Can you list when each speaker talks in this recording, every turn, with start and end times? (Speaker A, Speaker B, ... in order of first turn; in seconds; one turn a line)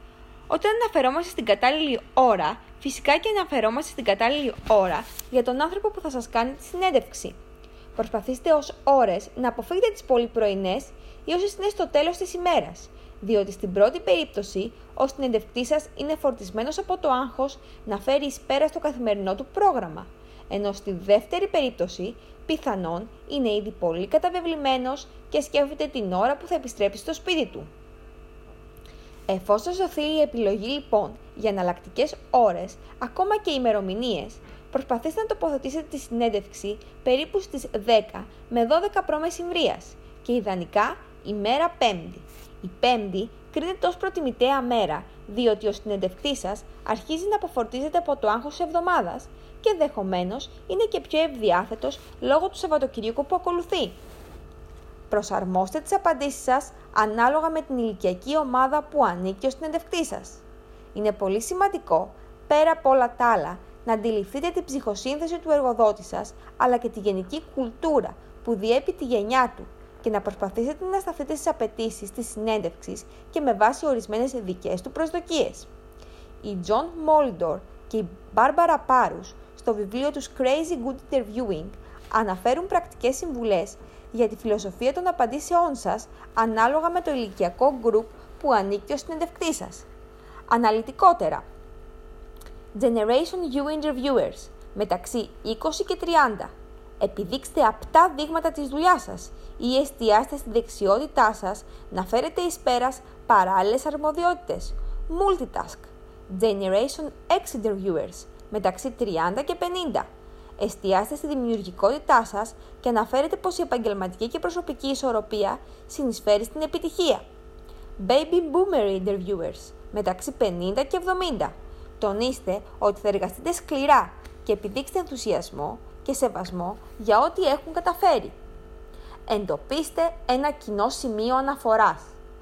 Speaker A: 0.5-7.4
Speaker A: 8.0-27.7
Speaker A: 29.3-54.0
Speaker A: 55.1-60.4
Speaker A: 60.9-75.7
Speaker A: 76.4-89.9
Speaker A: 90.5-91.4
Speaker A: 92.7-117.2
Speaker A: 118.0-128.3
Speaker A: 129.3-132.2